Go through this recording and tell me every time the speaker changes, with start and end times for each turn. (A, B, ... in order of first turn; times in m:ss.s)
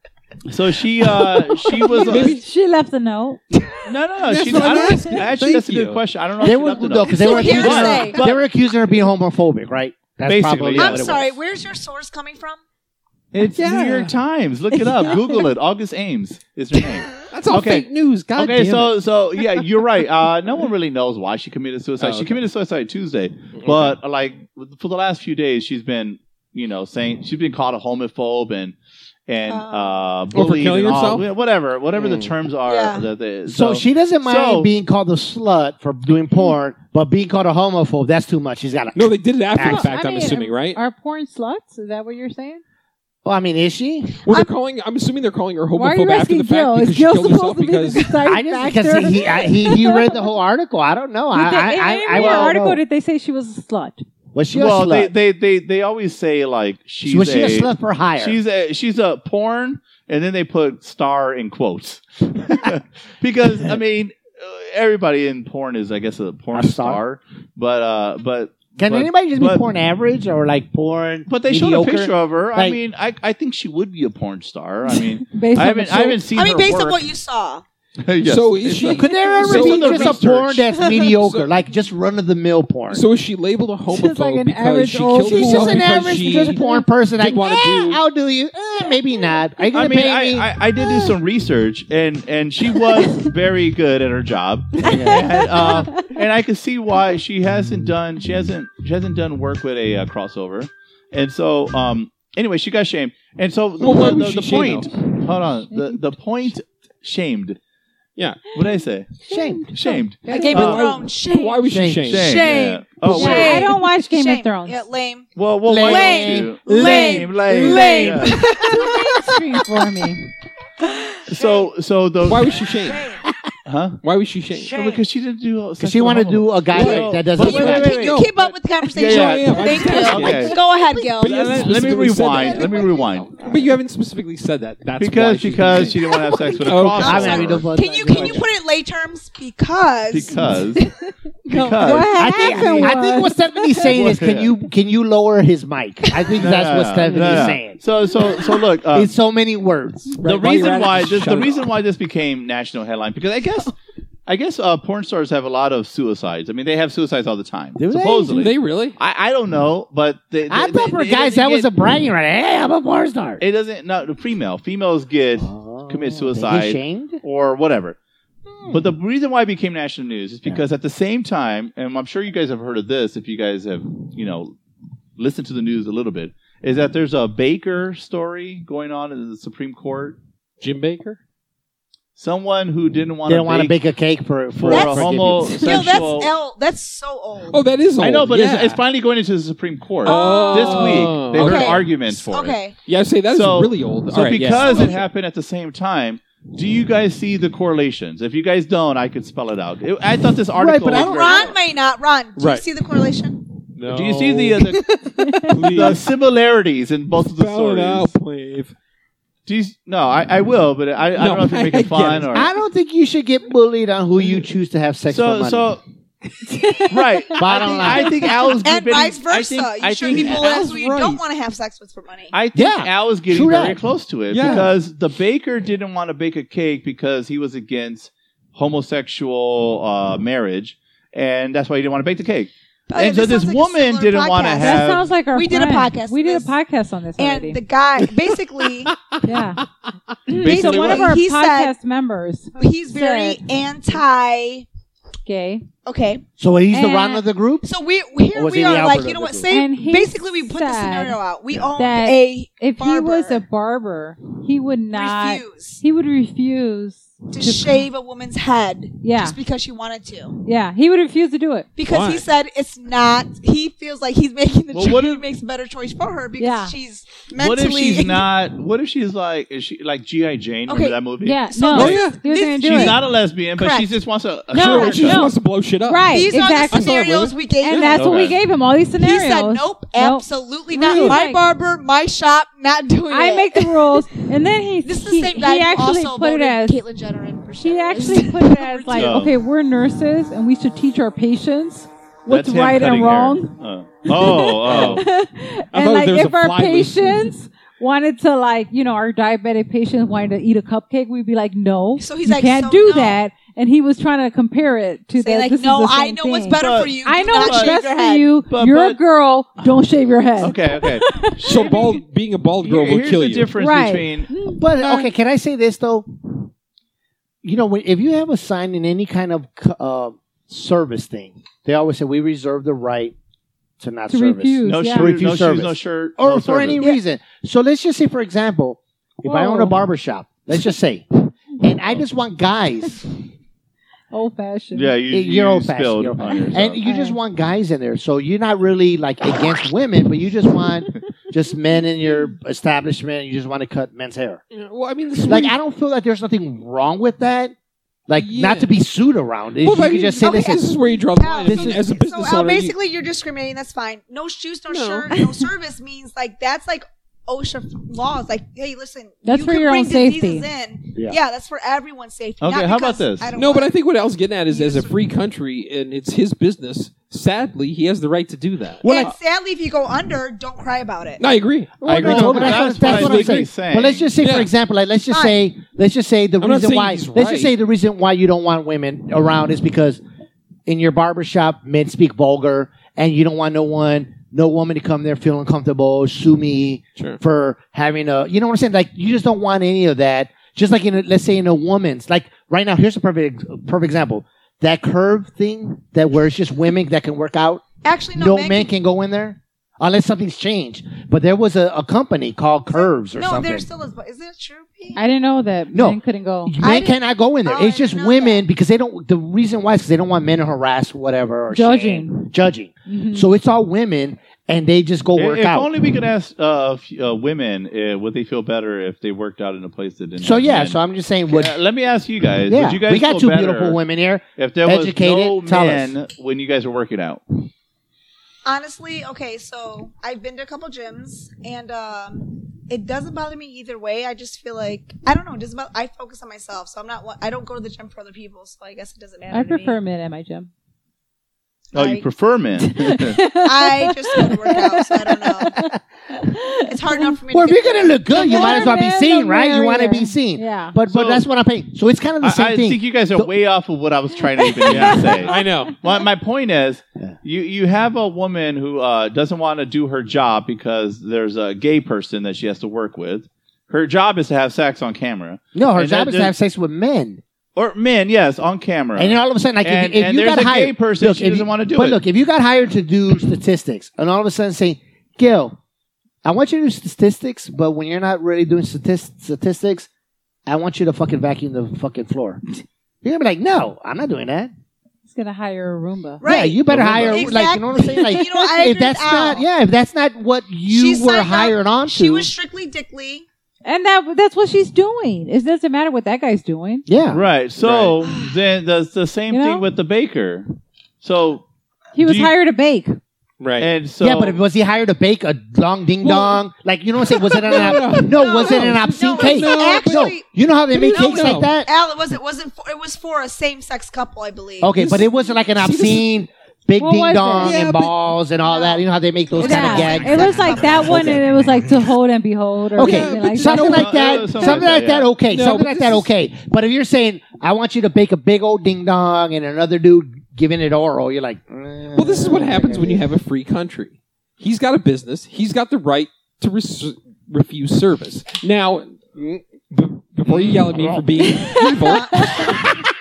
0:00.5-0:02.4 A
0:01.9-0:03.6 B
0:02.0-0:02.4 C
0:03.8-0:08.4 A
0:04.3-0:06.0 C
0:04.7-0:05.2 B
0:06.4-0:11.4 D
0:07.0-0:08.2 E
0:07.4-0:08.0 B
0:10.2-0:11.2 A
0:10.8-0:12.6 E
0:13.3-0:28.8 A
0:13.6-0:14.1 C
0:17.3-0:19.0 C
0:22.0-0:22.4 C
0:23.6-0:24.0 C
0:29.3-0:34.7 A
0:29.5-0:30.1 E
0:30.3-0:31.3 C
0:32.0-0:32.3 C
0:32.7-0:33.1 E
0:33.5-0:39.9 D
0:39.0-0:40.8 C
0:39.6-0:42.6 B
0:43.2-0:44.2 D
0:44.2-0:48.1 C
0:45.8-0:50.2 B
0:48.2-0:52.8 D
0:51.3-0:54.0 B
0:52.1-0:52.6 A
0:54.3-0:55.1 D
0:54.5-1:09.6 A
0:57.0-0:58.4 D
1:06.5-1:07.0 D
1:08.8-1:12.8 D
1:11.3-1:17.0 A
1:14.9-1:16.2 B
1:16.3-1:17.6 E
1:18.0-1:20.7 A
1:18.2-1:20.2 C
1:18.8-1:23.0 D
1:20.9-1:21.5 C
1:22.9-1:26.6 C
1:23.9-1:26.9 B
1:25.2-1:30.5 D
1:27.2-1:28.0 C
1:29.7-1:47.6 A
1:34.8-1:35.2 D
1:34.9-1:36.0 B
1:43.8-1:44.9 C
1:48.2-1:48.5 C
1:48.5-1:49.2 A
1:49.3-1:50.6 B
1:49.3-1:49.8 D
1:49.7-1:50.9 A
1:50.3-1:52.5 C
1:50.3-1:55.3 E
1:51.7-1:52.3 D
1:52.1-1:53.7 A
1:53.1-1:54.8 B
1:55.4-1:58.4 A
1:55.6-1:58.4 D
1:55.8-1:59.1 E
1:58.6-2:00.3 B
2:00.8-2:01.2 E
2:01.3-2:02.6 A
2:02.2-2:03.2 C
2:02.9-2:03.1 E
2:03.7-2:04.0 A
2:04.0-2:04.8 C
2:04.7-2:08.3 A
2:05.8-2:08.0 D
2:06.7-2:10.6 C
2:07.4-2:11.7 E
2:08.9-2:10.6 A
2:11.2-2:17.5 C
2:11.2-2:13.4 A
2:12.4-2:13.6 E
2:15.0-2:18.4 A
2:16.3-2:21.0 E
2:17.0-2:18.4 D
2:20.1-2:20.9 A
2:21.5-2:23.9 B
2:21.5-2:23.0 A
2:22.1-2:27.8 D
2:23.9-2:24.6 A
2:26.4-2:29.2 A
2:28.9-2:30.2 D
2:30.2-2:31.7 C
2:30.2-2:33.8 A
2:34.3-2:41.7 A
2:37.8-2:38.5 D
2:38.3-2:39.0 C
2:40.5-2:43.4 D
2:43.4-2:48.0 A
2:45.4-2:47.2 D
2:48.5-2:48.8 D
2:48.7-2:54.6 A
2:55.2-3:00.2 A
3:00.6-3:01.2 C
3:02.2-3:03.8 A
3:03.3-3:05.7 D
3:04.5-3:06.3 A
3:04.7-3:07.6 E
3:07.5-3:08.8 C
3:08.0-3:12.6 A
3:10.0-3:11.0 B
3:10.0-3:12.8 E
3:10.1-3:11.8 C
3:12.9-3:15.0 C
3:13.3-3:21.6 A
3:14.6-3:15.0 E
3:20.5-3:21.6 D
3:20.9-3:23.4 E
3:22.4-3:22.7 C
3:23.8-3:24.8 C
3:23.8-3:25.0 A
3:25.2-3:25.5 B
3:25.4-3:26.1 C
3:25.5-3:28.1 A
3:27.2-3:28.7 C
3:29.5-3:32.5 A
3:31.2-3:32.4 C
3:32.3-3:35.7 D
3:35.1-3:35.8 A
3:36.5-3:37.1 B
3:36.9-3:40.6 A
3:37.4-3:38.2 D
3:38.5-3:42.3 E
3:40.0-3:41.2 C
3:42.3-3:55.1 A
3:42.5-3:43.8 D
3:44.3-3:44.7 C
3:52.9-3:56.5 E
3:54.6-3:57.6 B
3:57.2-3:58.9 E
3:58.8-3:59.6 C
3:59.2-3:59.6 B
4:00.3-4:03.4 B
4:00.4-4:01.2 A
4:00.4-4:01.7 E
4:02.6-4:04.7 E
4:05.3-4:05.7 B
4:05.8-4:06.2 E
4:06.4-4:07.7 D
4:06.7-4:07.3 B
4:07.6-4:13.4 E
4:08.3-4:09.5 D
4:09.5-4:11.2 B
4:11.8-4:17.9 B
4:14.9-4:15.8 E
4:17.3-4:20.4 E
4:19.0-4:19.4 B
4:20.4-4:21.7 B
4:21.8-4:28.3 E
4:21.9-4:22.3 C
4:24.7-4:25.2 A
4:26.4-4:26.8 B
4:27.4-4:32.1 A
4:30.7-4:31.0 E
4:31.2-4:33.0 B
4:31.5-4:33.9 E
4:31.7-4:32.2 C
4:32.6-4:35.3 A
4:34.5-4:37.0 B
4:34.5-4:38.0 C
4:36.1-4:38.3 E
4:37.6-4:41.4 B
4:37.8-4:38.4 A
4:39.0-4:44.1 E
4:40.8-4:41.2 C
4:43.1-4:46.8 B
4:44.8-4:49.2 E
4:47.6-4:53.5 B
4:49.0-4:49.3 A
4:52.3-4:55.0 A
4:54.1-5:11.7 B
4:54.6-4:55.1 C
4:55.7-4:57.3 C
5:02.0-5:03.2 E
5:05.2-5:08.3 E
5:06.6-5:07.8 A
5:08.5-5:09.0 A
5:10.4-5:11.9 A
5:11.4-5:13.5 C
5:12.6-5:14.3 A
5:13.6-5:15.1 B
5:14.6-5:16.5 D
5:17.4-5:23.2 D
5:23.8-5:33.1 D
5:24.1-5:25.1 B
5:24.7-5:26.8 A
5:29.2-5:29.8 B
5:34.1-5:35.0 B
5:34.7-5:36.8 A
5:35.1-5:44.4 D
5:36.8-5:37.2 B
5:44.5-5:45.6 C
5:45.2-5:47.6 D
5:48.1-5:50.7 D
5:48.2-5:48.7 C
5:49.6-5:52.8 C
5:50.2-6:03.8 E
5:51.4-5:51.9 D
5:54.7-5:55.1 C
5:59.2-6:00.5 B
6:02.4-6:03.3 A
6:03.4-6:08.8 C
6:04.5-6:05.0 E
6:08.8-6:11.2 E
6:08.8-6:09.1 D
6:11.2-6:13.5 C
6:11.8-6:20.0 D
6:11.9-6:14.1 A
6:14.2-6:14.5 C
6:15.1-6:15.4 E
6:16.4-6:17.5 C
6:20.7-6:37.6 D
6:37.8-6:38.7 E
6:38.2-6:43.7 D
6:42.7-6:45.0 E
6:45.0-6:46.6 B
6:45.7-6:55.7 D
6:46.6-6:48.4 E
6:51.5-6:52.3 B
6:52.9-6:53.3 B
6:55.2-7:03.8 A
7:00.2-7:01.6 D
7:02.5-7:05.9 D
7:04.4-7:07.2 A
7:08.4-7:19.8 E
7:19.3-7:20.5 B
7:21.7-7:22.1 E
7:21.7-7:23.2 A
7:22.6-7:27.1 B
7:23.3-7:25.6 E
7:26.7-7:28.5 E
7:27.3-7:33.3 D
7:28.1-7:30.8 B
7:30.9-7:31.2 A
7:32.2-7:46.3 A
7:34.4-7:35.7 B
7:34.7-7:35.8 C
7:45.6-7:47.2 D
7:47.6-7:52.0 A
7:49.0-7:55.6 D
7:56.2-7:59.9 D
8:00.5-8:02.4 D
8:03.0-8:04.5 D
8:05.1-8:06.2 B
8:06.2-8:09.4 E
8:06.2-8:12.3 D
8:06.7-8:07.3 A
8:10.7-8:13.2 E
8:13.6-8:16.9 B
8:16.9-8:17.2 D
8:17.1-8:20.5 A
8:18.0-8:18.4 E
8:19.3-8:19.6 B
8:21.0-8:21.4 A
8:22.0-8:23.0 B
8:22.0-8:22.3 A
8:23.4-8:23.7 C
8:23.6-8:24.4 A
8:24.0-8:31.7 D
8:26.0-8:26.4 C
8:27.2-8:30.2 C
8:28.2-8:30.2 E
8:30.7-8:31.6 C
8:30.8-8:34.8 E
8:34.6-8:41.3 D
8:34.8-8:36.1 C
8:36.8-8:37.6 B
8:37.4-8:38.0 C
8:38.5-8:41.2 E
8:39.4-8:44.1 B
8:42.8-8:53.1 D
8:42.8-8:44.1 C
8:43.6-8:45.1 A
8:45.3-8:46.1 C
8:52.0-9:02.7 C
9:00.3-9:01.1 D
9:01.4-9:02.7 E